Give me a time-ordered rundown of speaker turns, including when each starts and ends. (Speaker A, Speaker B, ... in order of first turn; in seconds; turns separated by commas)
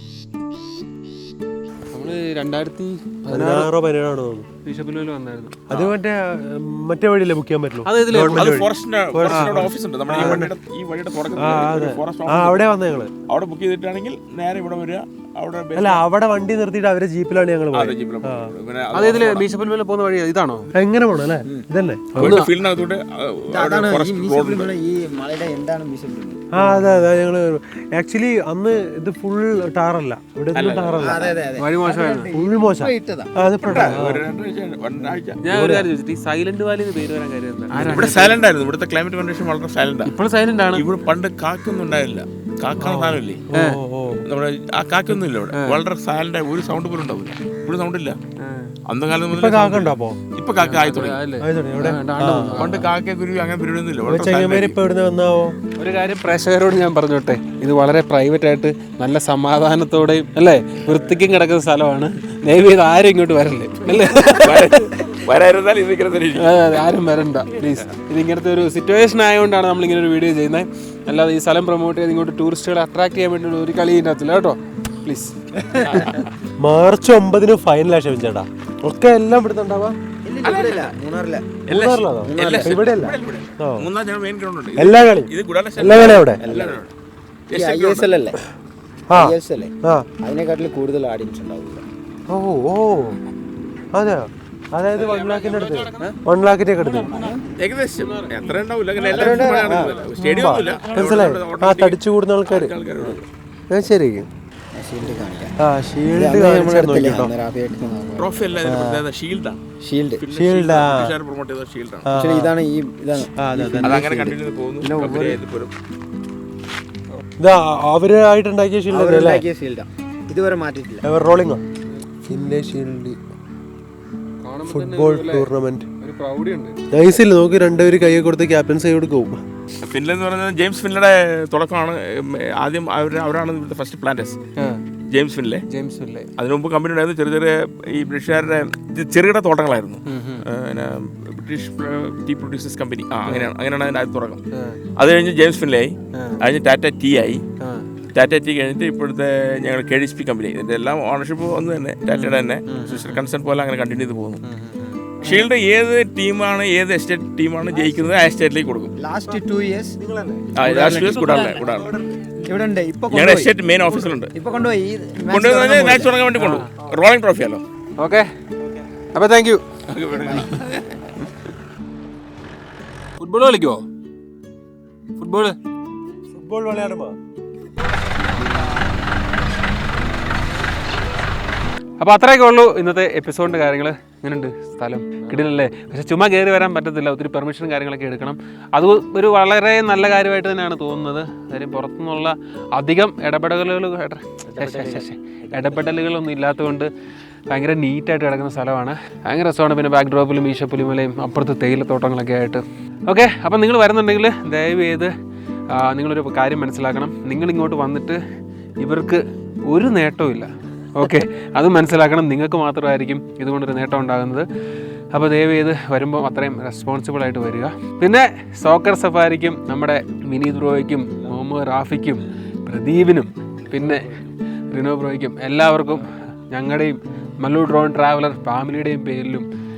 Speaker A: 1.9-3.7, Speaker B: 3.3-4.5, Speaker A: 4.6-5.7, Speaker B: 5.7-10.5, Speaker A: 7.8-8.5, Speaker C: 8.3-12.6, Speaker B: 11.4-13.1, Speaker C: 13.3-16.0, Speaker B: 15.8-18.5, Speaker C: 17.7-19.4, Speaker A: 18.9-20.7, Speaker B: 20.7-22.4, Speaker C: 22.1-24.7, Speaker A: 22.2-22.5, Speaker D: 23.5-26.4, Speaker B: 26.5-31.2, Speaker A: 26.6-27.0, Speaker C: 30.5-31.2, Speaker D: 31.0-33.3, Speaker A: 31.6-32.3, Speaker B: 32.3-34.2, Speaker C: 33.5-35.4, Speaker A: 35.4-38.4, Speaker B: 35.5-35.9, Speaker C: 37.8-40.1, Speaker A: 40.0-40.8, Speaker C: 40.7-43.4, Speaker B: 42.8-44.2, Speaker A: 43.5-43.8, Speaker C: 44.2-48.2, Speaker A: 45.5-45.8, Speaker A: 48.4-48.7, Speaker C: 48.9-51.2, Speaker B: 49.3-50.2, Speaker A: 50.6-52.9, Speaker B: 51.4-52.7, Speaker C: 52.6-54.8, Speaker B: 54.0-55.5, Speaker A: 55.8-64.7, Speaker C: 64.3-66.8, Speaker A: 66.4-75.3, Speaker D: 75.7-76.0, Speaker C: 75.8-76.3, Speaker B: 76.6-80.0, Speaker D: 80.2-81.6, Speaker C: 80.4-80.9, Speaker C: 81.7-86.9, Speaker B: 81.7-83.9, Speaker D: 82.2-82.7, Speaker B: 84.8-86.4, Speaker D: 86.4-86.8, Speaker C: 87.5-88.1, Speaker D: 87.5-88.4, Speaker B: 89.1-90.1, Speaker D: 89.1-91.8, Speaker B: 92.3-93.2, Speaker B: 93.9-97.2, Speaker A: 94.9-96.2, Speaker A: 96.8-97.4, Speaker D: 97.0-97.4, Speaker C: 97.5-103.2, Speaker A: 98.0-98.3, Speaker D: 99.0-99.9, Speaker A: 99.7-100.0, Speaker B: 100.2-102.7, Speaker B: 103.7-104.3, Speaker D: 104.8-105.5, Speaker B: 105.6-107.3, Speaker D: 106.1-108.4, Speaker C: 108.2-109.6, Speaker D: 109.8-110.2, Speaker C: 110.2-112.1, Speaker B: 110.3-111.1, Speaker B: 112.0-112.5, Speaker D: 112.1-114.3, Speaker B: 113.4-114.0, Speaker C: 113.8-115.7, Speaker D: 115.0-115.3, Speaker B: 117.4-119.4, Speaker D: 118.9-121.1, Speaker B: 121.0-121.6, Speaker B: 122.3-123.2, Speaker A: 124.4-125.5, Speaker B: 124.7-125.9, Speaker A: 126.0-126.8, Speaker B: 126.9-129.4, Speaker C: 129.8-134.4, Speaker A: 134.6-134.8, Speaker C: 135.1-135.6, Speaker A: 135.7-136.3, Speaker C: 136.4-144.4, Speaker A: 140.1-140.4, Speaker A: 144.5-144.8, Speaker C: 145.0-147.4, Speaker A: 147.6-147.9, Speaker C: 148.1-154.4, Speaker D: 152.1-153.2, Speaker D: 154.4-155.2, Speaker C: 155.2-158.9, Speaker B: 157.7-158.2, Speaker D: 159.0-160.0, Speaker B: 160.0-162.4, Speaker D: 160.5-161.4, Speaker C: 160.5-161.9, Speaker D: 162.4-163.5, Speaker C: 163.1-164.3, Speaker D: 164.3-166.1, Speaker C: 165.3-167.6, Speaker A: 166.3-166.7, Speaker A: 168.0-168.3, Speaker B: 168.6-168.9, Speaker A: 169.1-169.6, Speaker C: 169.9-170.7, Speaker A: 173.2-173.8, Speaker A: 175.2-175.6, Speaker B: 176.3-177.2, Speaker A: 182.0-196.9, Speaker B: 194.5-195.8, Speaker A: 197.5-205.1, Speaker A: 205.7-208.2, Speaker A: 208.8-214.4, Speaker A: 215.1-224.1, Speaker B: 223.7-224.2, Speaker A: 224.7-229.5